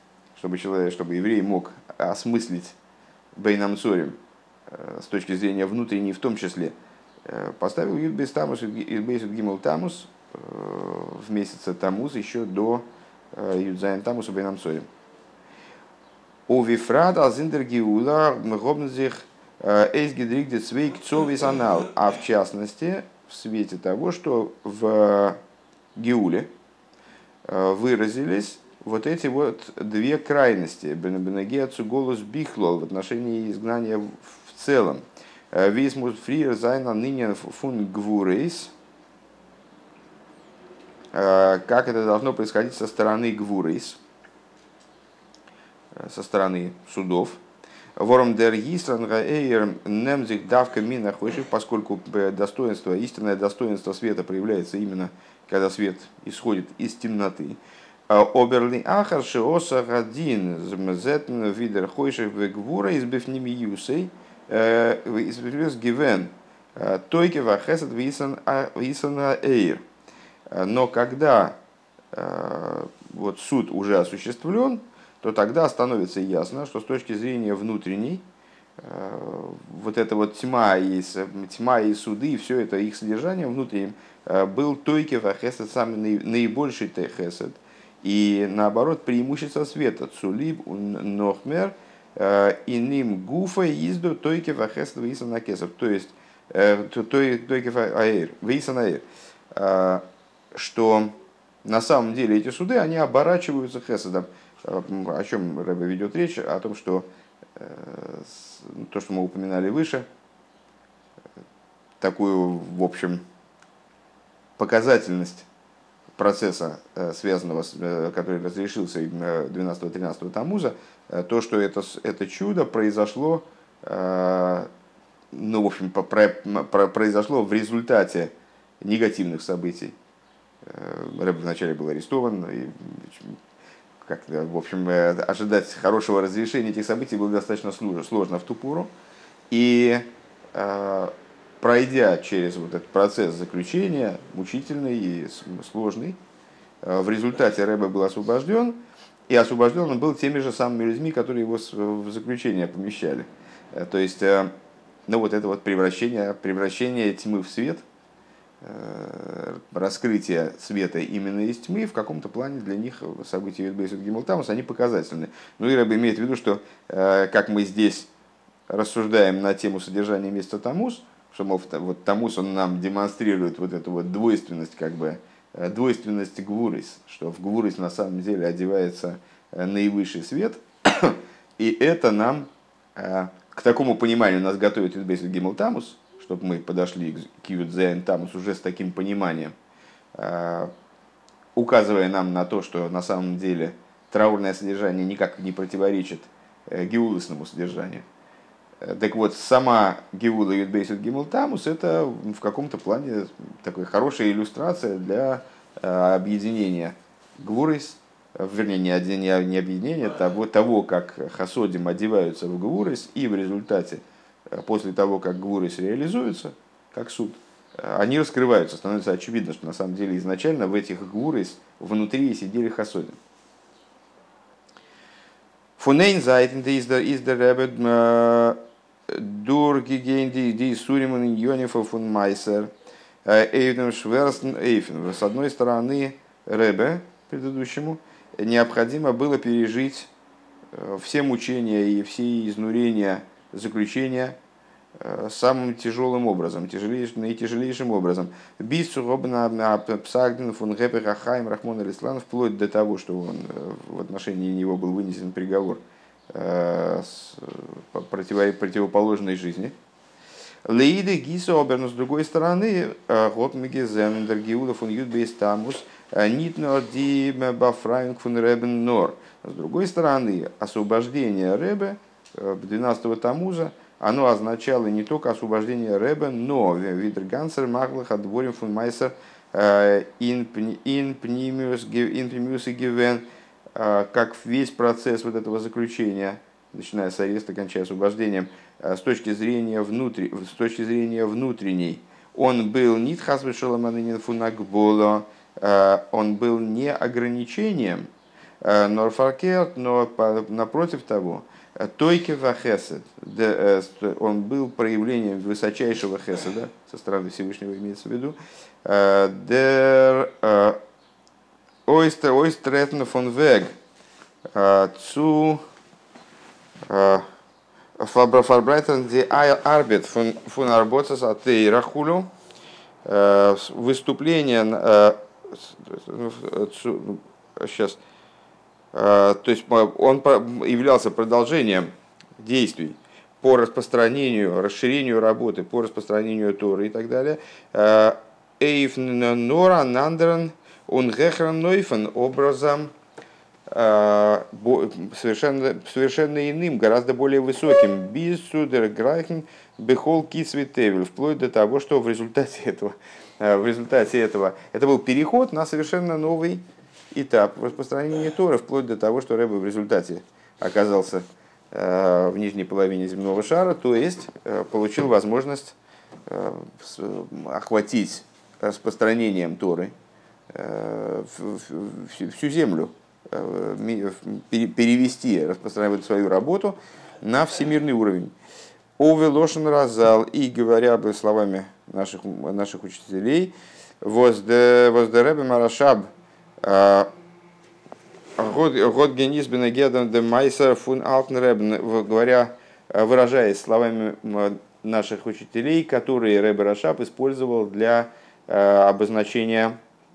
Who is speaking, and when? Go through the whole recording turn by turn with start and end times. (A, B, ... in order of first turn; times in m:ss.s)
0:00.4-0:02.8 A
0:03.4-0:04.2 A
0:04.7-0:06.7 A
0:07.3-0:14.9 A
0:16.5-0:25.4 A
0:26.0-0:26.5 A
0:27.4-0:38.7 A
0:41.1-0:44.0 A
0:45.9-0:47.4 A
0:48.0-1:09.8 A
1:10.5-1:11.6 A
1:12.1-1:18.2 A
1:18.8-1:47.1 A
1:47.6-1:50.1 A
1:52.0-1:53.2 A
1:54.6-1:55.5 A
1:56.2-2:04.7 A
2:05.3-2:10.0 A
2:10.6-2:13.4 A
2:14.0-2:18.9 A
2:19.5-2:26.2 A
2:26.8-2:34.5 A
2:35.1-2:37.8 A
2:38.6-2:48.1 A
2:48.7-3:09.5 A
3:10.2-3:10.7 A
3:11.6-3:18.0 A
3:18.8-3:43.2 A
3:45.8-3:52.7 A
3:53.2-4:00.1 A
4:00.7-4:04.4 A
4:05.0-4:19.8 A
4:20.6-4:58.1 A
4:58.6-5:10.8 A
5:11.9-5:13.7 A
5:14.5-5:15.6 A
5:16.9-5:17.2 A
5:18.0-5:22.3 A
5:23.0-5:28.0 A
5:28.9-5:42.9 A
5:43.7-6:05.8 A
6:06.3-6:09.9 A
6:10.5-6:18.3 A
6:19.0-6:26.1 A
6:26.6-6:27.1 A
6:28.4-6:39.8 A